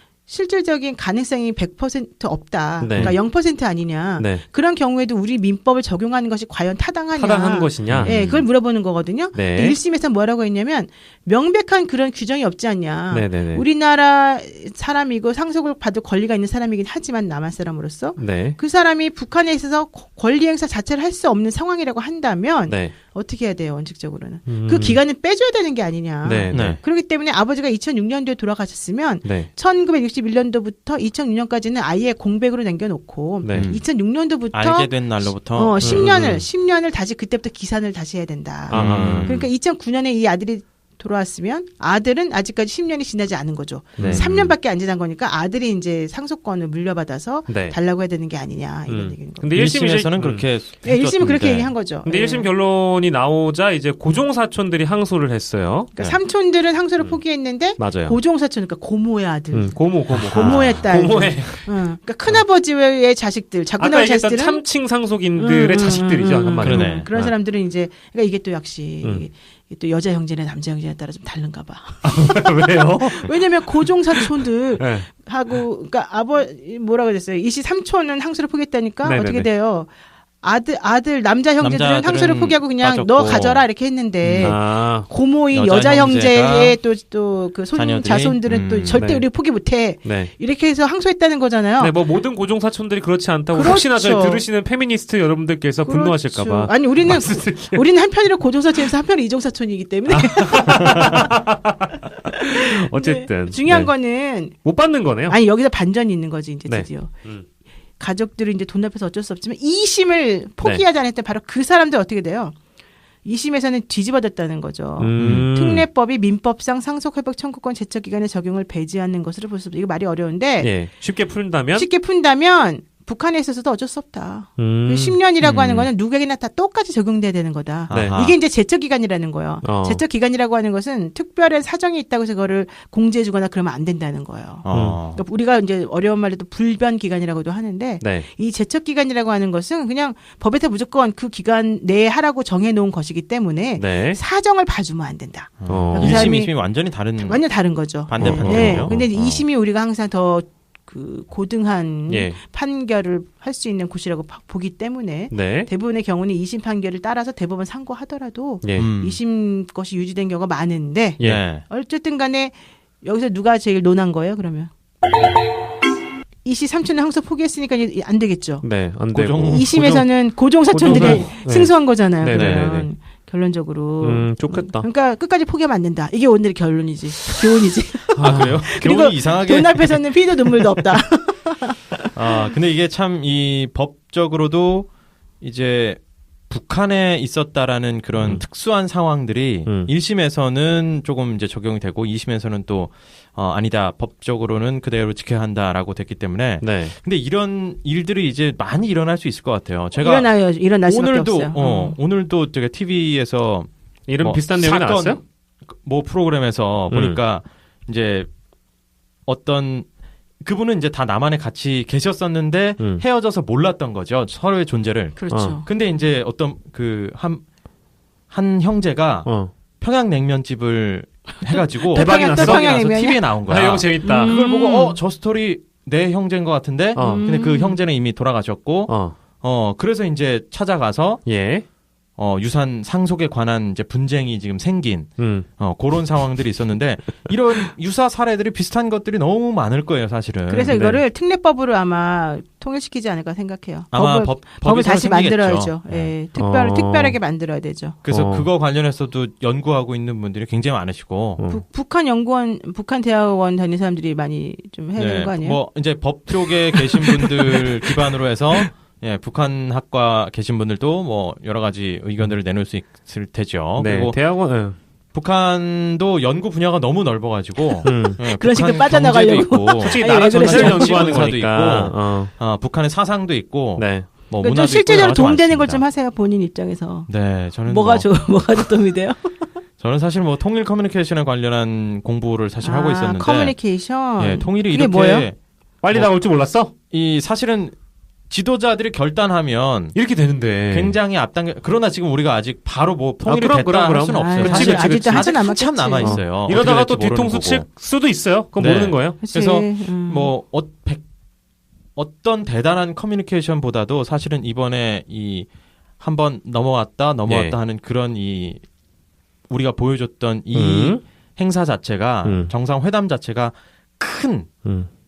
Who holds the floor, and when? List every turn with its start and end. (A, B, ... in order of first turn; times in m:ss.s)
0:00.3-0:49.5 A
0:02.8-0:03.6 B
0:04.2-0:04.4 B
0:07.1-0:08.2 B
0:07.9-0:08.4 C
0:09.3-0:09.8 B
0:13.1-0:13.6 B
0:18.2-0:18.6 B
0:22.7-0:22.9 B
0:24.5-0:25.0 B
0:26.2-0:26.8 B
0:26.5-0:26.8 C
0:29.2-0:29.5 B
0:33.4-0:33.7 B
0:33.5-0:33.8 C
0:34.5-0:36.2 C
0:35.8-0:36.4 B
0:38.7-0:39.5 B
0:38.7-0:39.5 C
0:44.0-0:44.5 B
0:44.0-0:44.3 C
0:47.5-0:47.8 B
0:48.9-0:50.4 B
0:49.5-0:51.7 C
0:50.8-0:52.5 A
0:52.0-0:55.9 B
0:55.9-1:04.6 A
0:57.0-0:58.2 B
0:59.5-1:01.7 B
1:00.1-1:00.8 C
1:03.8-1:07.2 B
1:05.4-1:19.9 A
1:06.6-1:07.3 C
1:12.0-1:15.1 B
1:19.0-1:19.5 B
1:20.4-1:31.9 A
1:21.6-1:23.7 C
1:24.2-1:24.6 C
1:24.4-1:25.1 B
1:25.5-1:26.8 C
1:27.7-1:29.0 C
1:29.0-1:29.3 B
1:30.0-1:30.3 B
1:31.8-1:37.8 B
1:33.5-1:34.4 A
1:35.8-1:41.3 A
1:40.1-1:43.9 B
1:42.2-1:44.6 A
1:44.6-1:45.4 B
1:45.3-1:47.2 A
1:46.7-1:47.4 B
1:48.0-1:52.6 A
1:53.2-2:00.7 A
1:55.0-1:55.8 B
1:55.2-1:55.4 C
2:00.6-2:01.9 B
2:01.7-2:26.6 A
2:04.6-2:05.2 B
2:05.4-2:05.9 C
2:07.9-2:08.4 C
2:07.9-2:08.2 B
2:09.6-2:10.0 B
2:14.6-2:15.2 C
2:14.7-2:15.0 B
2:18.0-2:18.2 B
2:23.8-2:24.2 B
2:25.6-2:29.4 C
2:25.7-2:26.3 B
2:27.2-2:44.7 A
2:28.2-2:29.0 B
2:32.1-2:32.4 B
2:35.3-2:35.7 B
2:38.6-2:38.9 B
2:38.8-2:39.2 C
2:41.2-2:41.6 C
2:46.4-2:48.6 A
2:48.6-2:50.0 B
2:49.1-2:50.0 C
2:49.5-3:02.1 A
2:50.7-2:52.9 B
2:50.8-2:51.3 C
2:52.3-2:52.7 C
2:54.0-2:54.8 B
2:58.2-2:58.6 B
2:58.2-3:00.0 C
3:02.1-3:04.9 C
3:05.4-3:28.3 C
3:16.6-3:16.9 B
3:20.0-3:22.0 A
3:24.1-3:25.2 B
3:26.9-3:27.2 B
3:29.3-3:29.8 C
3:30.4-3:37.4 C
3:35.2-3:35.7 A
3:35.3-3:35.6 B
3:38.3-3:39.3 C
3:39.2-3:39.5 B
3:39.8-3:51.2 C
3:41.9-3:43.3 A
3:41.9-3:42.8 B
3:43.5-3:44.3 B
3:44.0-3:45.0 A
3:47.0-3:47.8 A
3:47.0-3:47.2 B
3:48.9-3:49.1 B
3:51.2-3:51.6 B
3:52.2-4:00.7 C
3:55.2-3:55.4 B
4:00.5-4:08.0 A
4:00.7-4:01.0 B
4:03.9-4:06.1 C
4:06.4-4:07.2 B
4:08.0-4:11.4 C
4:08.1-4:08.5 B
4:11.4-4:11.6 B
4:11.5-4:15.6 A
4:15.0-4:24.2 C
4:16.8-4:17.6 A
4:23.8-4:24.8 B
4:25.1-4:35.8 C
4:27.8-4:28.2 B
4:28.1-4:31.2 A
4:29.8-4:32.3 B
4:33.8-4:34.1 B
4:34.4-4:37.1 A
4:37.1-4:38.1 C
4:37.6-4:39.5 A
4:39.8-4:43.6 C
4:42.6-4:45.3 A
4:44.2-4:45.4 C
4:45.8-4:46.7 B
4:46.9-4:47.7 C
4:48.3-4:49.9 C
4:49.9-4:51.0 B
4:50.7-4:57.6 C
4:53.2-4:55.3 B
4:54.1-4:56.2 A
4:56.0-4:59.2 B
4:58.6-5:01.0 C
4:59.2-5:00.3 A
5:02.0-5:05.5 C
5:06.0-5:08.6 C
5:07.3-5:07.5 B
5:09.5-5:14.5 C
5:10.5-5:11.0 B
5:12.2-5:12.5 B